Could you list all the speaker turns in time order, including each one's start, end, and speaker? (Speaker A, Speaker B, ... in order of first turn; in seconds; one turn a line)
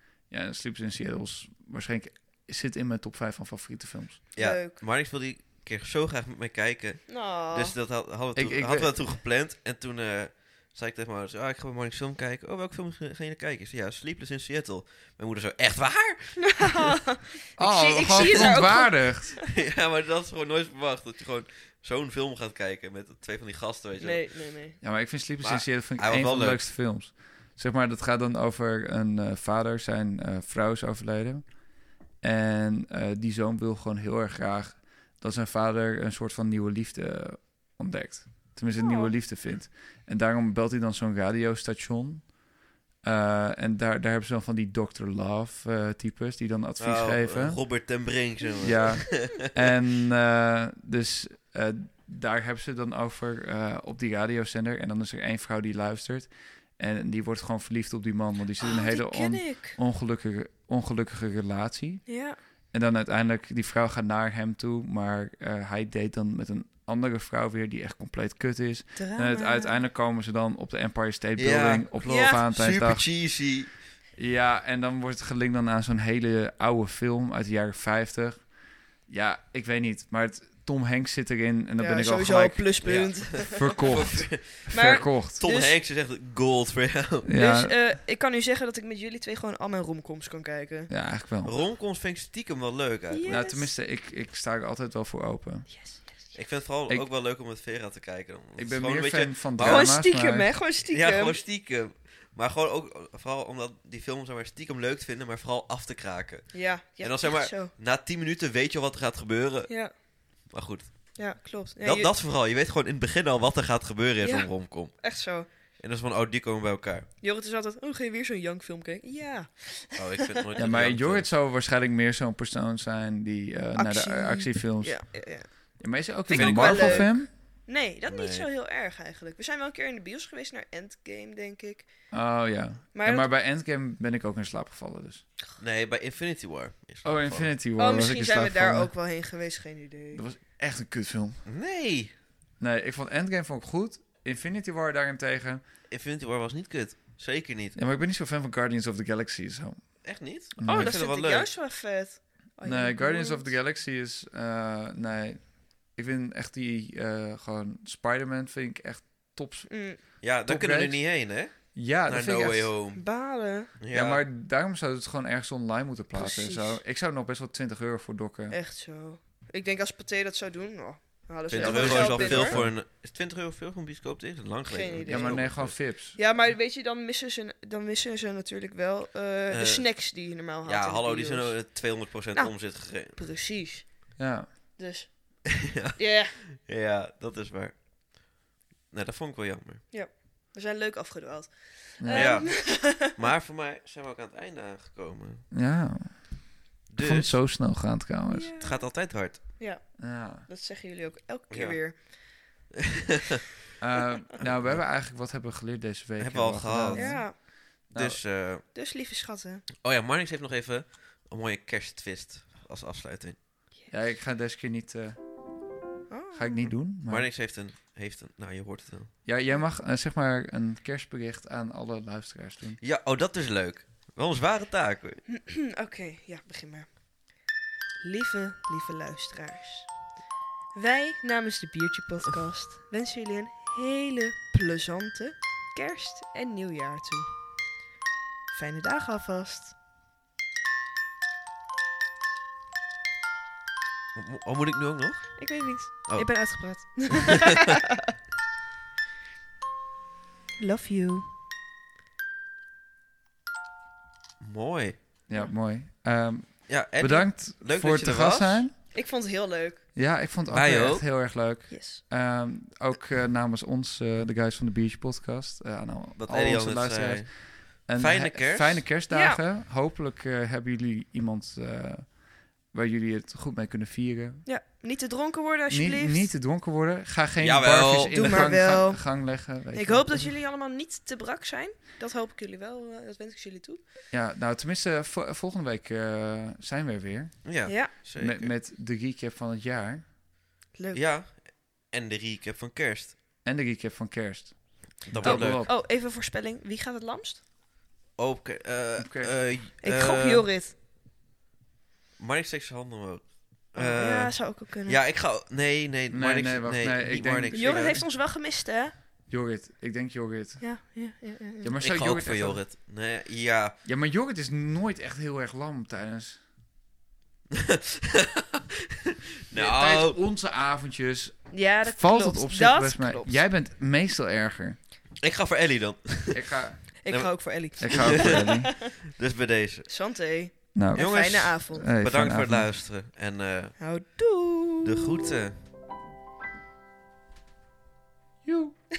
Speaker A: 0.3-4.3
Speaker B: 4.3-17.0
Speaker C: 4.4-4.8
Speaker C: 7.1-7.7
Speaker A: 8.3-8.9
Speaker C: 16.4-19.4
Speaker A: 17.6-19.4
Speaker B: 18.2-18.6
Speaker B: 19.4-24.3
Speaker C: 24.0-24.8
Speaker A: 24.8-31.6
Speaker B: 25.4-26.7
Speaker A: 32.2-42.3
Speaker C: 38.7-39.1
Speaker A: 43.0-47.6
Speaker B: 46.8-49.5
Speaker A: 48.6-62.0
Speaker C: 58.6-59.8
Speaker C: 62.0-62.4
Speaker A: 62.7-73.0
Speaker C: 69.0-69.8
Speaker B: 71.4-73.7
Speaker C: 72.0-72.4
Speaker A: 74.2-78.5
Speaker A: 79.1-82.8
Speaker C: 81.8-83.9
Speaker B: 82.8-87.3
Speaker A: 83.4-85.4
Speaker C: 84.7-85.8
Speaker A: 87.2-87.7
Speaker C: 87.3-90.9
Speaker A: 90.9-91.5
Speaker B: 91.4-93.4
Speaker C: 93.1-93.7
Speaker A: 93.2-95.7
Speaker C: 95.7-96.0
Speaker B: 96.3-99.9
Speaker A: 98.6-100.5
Speaker C: 99.6-101.4
Speaker B: 100.8-109.8
Speaker C: 106.5-107.7
Speaker C: 109.7-109.9
Speaker B: 110.5-111.3
Speaker C: 111.2-112.1
Speaker B: 111.8-115.2
Speaker C: 114.2-115.5
Speaker B: 115.8-117.1
Speaker C: 117.2-120.2
Speaker B: 120.0-121.3
Speaker A: 120.5-125.1
Speaker C: 123.8-131.9
Speaker A: 125.8-127.3
Speaker B: 126.3-127.1
Speaker B: 128.1-128.5
Speaker A: 132.1-135.2
Speaker C: 132.9-133.3
Speaker B: 135.6-137.5
Speaker A: 137.0-138.9
Speaker C: 137.8-140.2
Speaker A: 140.1-141.4
Speaker B: 141.4-142.1
Speaker A: 142.6-145.6
Speaker B: 145.9-147.8
Speaker A: 147.8-150.0
Speaker B: 150.0-151.5
Speaker A: 150.6-151.0
Speaker C: 150.7-153.5
Speaker A: 152.6-162.7
Speaker C: 159.7-160.0
Speaker B: 160.2-163.0
Speaker C: 162.9-163.7
Speaker B: 163.8-164.2
Speaker A: 163.9-168.6
Speaker C: 166.1-166.8
Speaker C: 168.5-172.6
Speaker B: 171.5-175.8
Speaker A: 171.5-172.7
Speaker C: 174.7-175.6
Speaker A: 175.0-176.2
Speaker C: 176.1-181.7
Speaker B: 179.5-179.9
Speaker B: 180.6-183.2
Speaker C: 182.3-184.2
Speaker A: 184.2-184.5
Speaker C: 184.8-186.3
Speaker B: 185.6-187.7
Speaker B: 188.9-189.8
Speaker C: 189.9-193.2
Speaker A: 192.0-192.4
Speaker B: 192.1-195.4
Speaker A: 195.5-198.5
Speaker B: 196.9-197.4
Speaker C: 198.3-202.4
Speaker B: 198.6-199.5
Speaker A: 200.0-200.5
Speaker B: 201.5-202.8
Speaker A: 203.8-208.2
Speaker B: 204.4-204.8
Speaker B: 206.2-208.6
Speaker C: 206.9-207.4
Speaker C: 208.7-209.6
Speaker B: 209.8-213.4
Speaker A: 213.9-215.2
Speaker C: 216.1-216.7
Speaker A: 216.3-217.3
Speaker B: 217.1-219.1
Speaker A: 219.2-222.8
Speaker B: 222.8-225.2
Speaker C: 225.3-226.9
Speaker C: 228.0-229.9
Speaker C: 230.7-237.3
Speaker C: 238.5-239.7
Speaker B: 244.1-247.7
Speaker C: 245.4-247.9
Speaker C: 250.6-251.3
Speaker B: 254.4-255.2
Speaker A: 255.3-258.7
Speaker B: 256.7-258.6
Speaker C: 258.9-259.8
Speaker A: 259.9-274.4
Speaker B: 260.5-261.0
Speaker C: 261.7-262.0
Speaker B: 266.2-268.9
Speaker C: 269.1-269.4
Speaker C: 274.4-276.3
Speaker A: 275.7-280.3
Speaker B: 277.4-278.5
Speaker C: 278.1-283.8
Speaker A: 284.1-290.1
Speaker B: 287.4-288.5
Speaker C: 287.6-287.9
Speaker C: 290.7-291.0
Speaker B: 290.9-293.1
Speaker A: 293.4-295.7
Speaker B: 295.1-295.6
Speaker C: 295.2-297.4
Speaker B: 298.2-300.5
Speaker A: 299.0-299.4
Speaker C: 299.8-300.7
Speaker B: 302.2-308.0
Speaker C: 303.8-305.0
Speaker A: 306.1-307.9
Speaker C: 307.5-308.9
Speaker A: 309.3-310.7
Speaker C: 310.6-311.7
Speaker A: 311.6-312.6
Speaker B: 311.8-313.8
Speaker A: 313.8-316.4
Speaker B: 317.5-320.2
Speaker A: 319.5-324.8
Speaker C: 321.5-323.4
Speaker B: 325.2-329.9
Speaker A: 326.3-326.9
Speaker C: 327.0-328.9
Speaker A: 327.8-328.8
Speaker C: 329.9-331.9
Speaker A: 330.7-332.7
Speaker B: 330.9-333.8
Speaker C: 333.8-335.1
Speaker B: 334.8-335.6
Speaker A: 338.4-338.8